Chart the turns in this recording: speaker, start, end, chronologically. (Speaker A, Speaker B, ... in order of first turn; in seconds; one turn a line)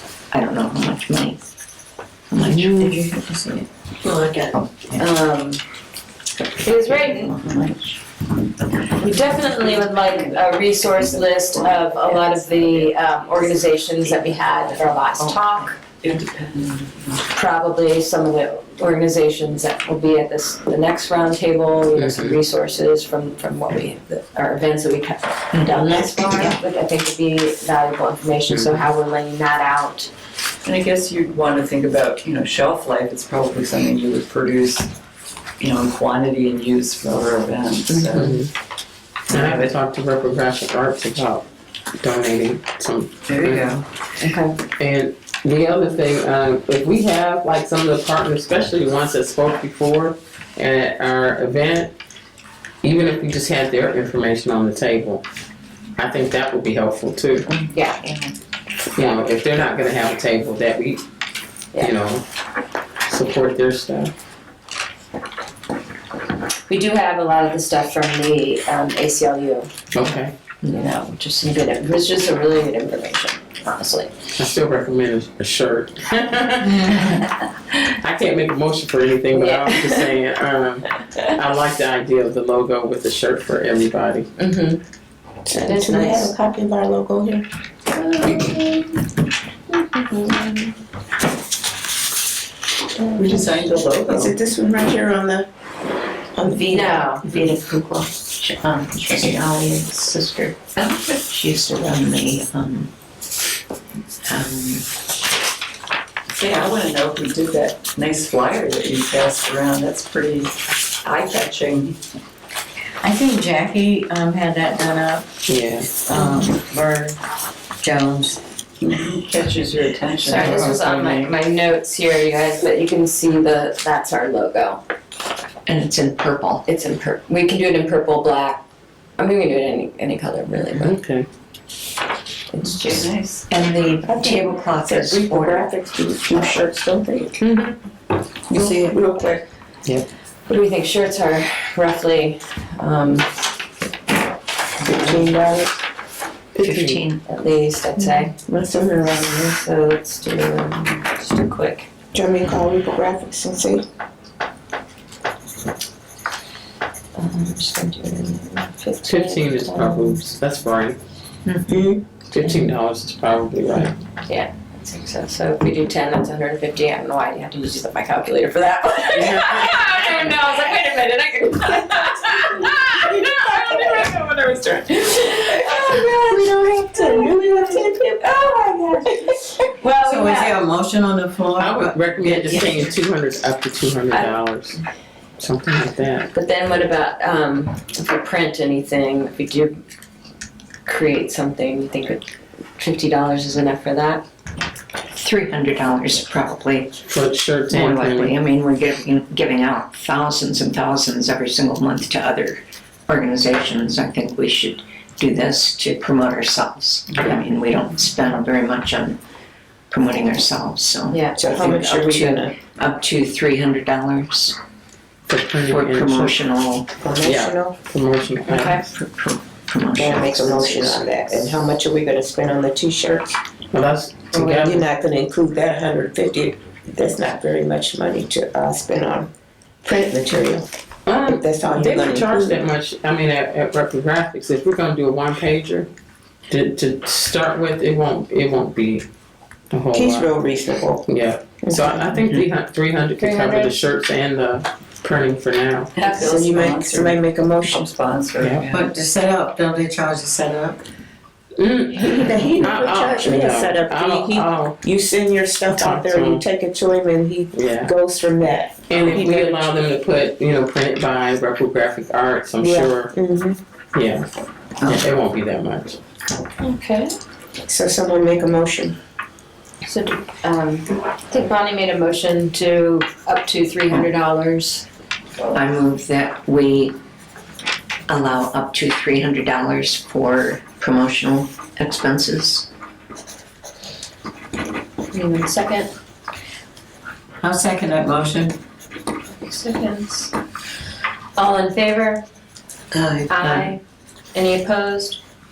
Speaker A: 0.3-1.4
Speaker A: 2.3-3.0
Speaker B: 2.4-2.7
Speaker C: 2.5-4.5
Speaker D: 5.0-5.6
Speaker D: 6.6-7.4
Speaker E: 7.0-8.0
Speaker D: 8.9-15.8
Speaker E: 9.0-13.1
Speaker E: 14.8-17.3
Speaker D: 17.3-30.1
Speaker B: 21.9-22.4
Speaker A: 25.5-26.4
Speaker F: 26.0-26.4
Speaker B: 28.5-28.8
Speaker E: 30.6-34.9
Speaker E: 35.6-38.4
Speaker B: 38.1-38.5
Speaker B: 39.3-41.4
Speaker E: 39.3-39.7
Speaker B: 42.0-43.8
Speaker E: 43.3-43.8
Speaker D: 44.3-44.6
Speaker B: 44.8-51.9
Speaker B: 52.8-55.2
Speaker B: 56.0-57.5
Speaker D: 57.7-58.1
Speaker B: 58.9-61.0
Speaker B: 61.8-62.2
Speaker B: 63.1-64.1
Speaker D: 66.7-69.7
Speaker B: 69.9-70.3
Speaker D: 70.7-74.1
Speaker B: 74.3-77.2
Speaker B: 77.9-84.3
Speaker D: 79.3-79.6
Speaker D: 84.4-84.8
Speaker F: 85.5-87.4
Speaker D: 85.6-86.3
Speaker D: 87.9-88.8
Speaker D: 89.8-90.7
Speaker E: 93.2-94.3
Speaker F: 94.0-95.5
Speaker F: 96.3-97.2
Speaker D: 96.7-97.3
Speaker A: 97.3-102.9
Speaker A: 104.2-104.9
Speaker E: 106.3-112.0
Speaker C: 113.0-115.3
Speaker B: 115.5-115.9
Speaker C: 115.9-117.2
Speaker C: 117.8-118.4
Speaker E: 118.8-121.3
Speaker D: 120.2-124.8
Speaker C: 120.5-120.8
Speaker A: 125.7-126.7
Speaker D: 126.7-128.5
Speaker D: 129.2-130.9
Speaker B: 130.7-131.3
Speaker D: 132.5-133.0
Speaker E: 132.8-133.5
Speaker A: 133.5-135.7
Speaker F: 134.0-137.4
Speaker D: 137.4-137.8
Speaker F: 138.5-139.4
Speaker C: 138.6-138.9
Speaker D: 140.5-143.3
Speaker F: 144.8-145.7
Speaker B: 146.5-147.0
Speaker A: 146.6-147.2
Speaker D: 147.2-148.3
Speaker F: 147.9-149.6
Speaker D: 149.5-151.8
Speaker F: 152.1-153.8
Speaker D: 157.2-160.2
Speaker B: 159.0-161.0
Speaker A: 161.4-161.7
Speaker F: 161.7-162.0
Speaker B: 162.3-163.9
Speaker D: 164.2-178.5
Speaker B: 169.1-170.4
Speaker F: 171.6-174.6
Speaker F: 175.3-179.5
Speaker D: 179.6-180.5
Speaker C: 179.8-182.9
Speaker B: 181.6-184.8
Speaker B: 185.4-186.3
Speaker D: 186.3-189.7
Speaker D: 190.8-192.2
Speaker D: 192.8-194.2
Speaker A: 195.1-196.9
Speaker B: 197.1-198.3
Speaker A: 197.7-209.2
Speaker A: 209.9-214.6
Speaker D: 211.1-211.4
Speaker F: 211.3-212.5
Speaker B: 215.3-216.3
Speaker A: 215.7-216.9
Speaker F: 217.0-217.8
Speaker B: 217.2-218.8
Speaker A: 218.4-221.1
Speaker F: 219.9-223.3
Speaker B: 223.7-224.8
Speaker F: 224.4-229.3
Speaker F: 229.8-230.7
Speaker B: 231.1-235.9
Speaker F: 231.2-232.6
Speaker B: 236.5-239.0
Speaker B: 239.7-240.3
Speaker F: 239.9-241.1
Speaker B: 241.1-245.9
Speaker F: 241.6-242.3
Speaker D: 243.2-243.8
Speaker E: 245.9-249.1
Speaker D: 245.9-246.2
Speaker F: 246.1-247.8
Speaker B: 248.4-248.7
Speaker C: 248.6-250.8
Speaker B: 251.6-254.8
Speaker F: 251.9-259.7
Speaker B: 255.7-256.4
Speaker B: 257.5-257.9
Speaker B: 258.9-263.1
Speaker F: 262.6-263.6
Speaker B: 263.9-264.2
Speaker B: 264.8-266.0
Speaker D: 266.6-267.1
Speaker F: 267.6-268.9
Speaker D: 269.8-274.8
Speaker A: 275.5-277.0
Speaker A: 278.1-282.7
Speaker D: 285.1-285.9
Speaker C: 287.4-288.6
Speaker D: 289.4-290.3
Speaker D: 291.4-292.2
Speaker C: 293.0-293.7
Speaker D: 293.3-293.8
Speaker D: 294.3-295.2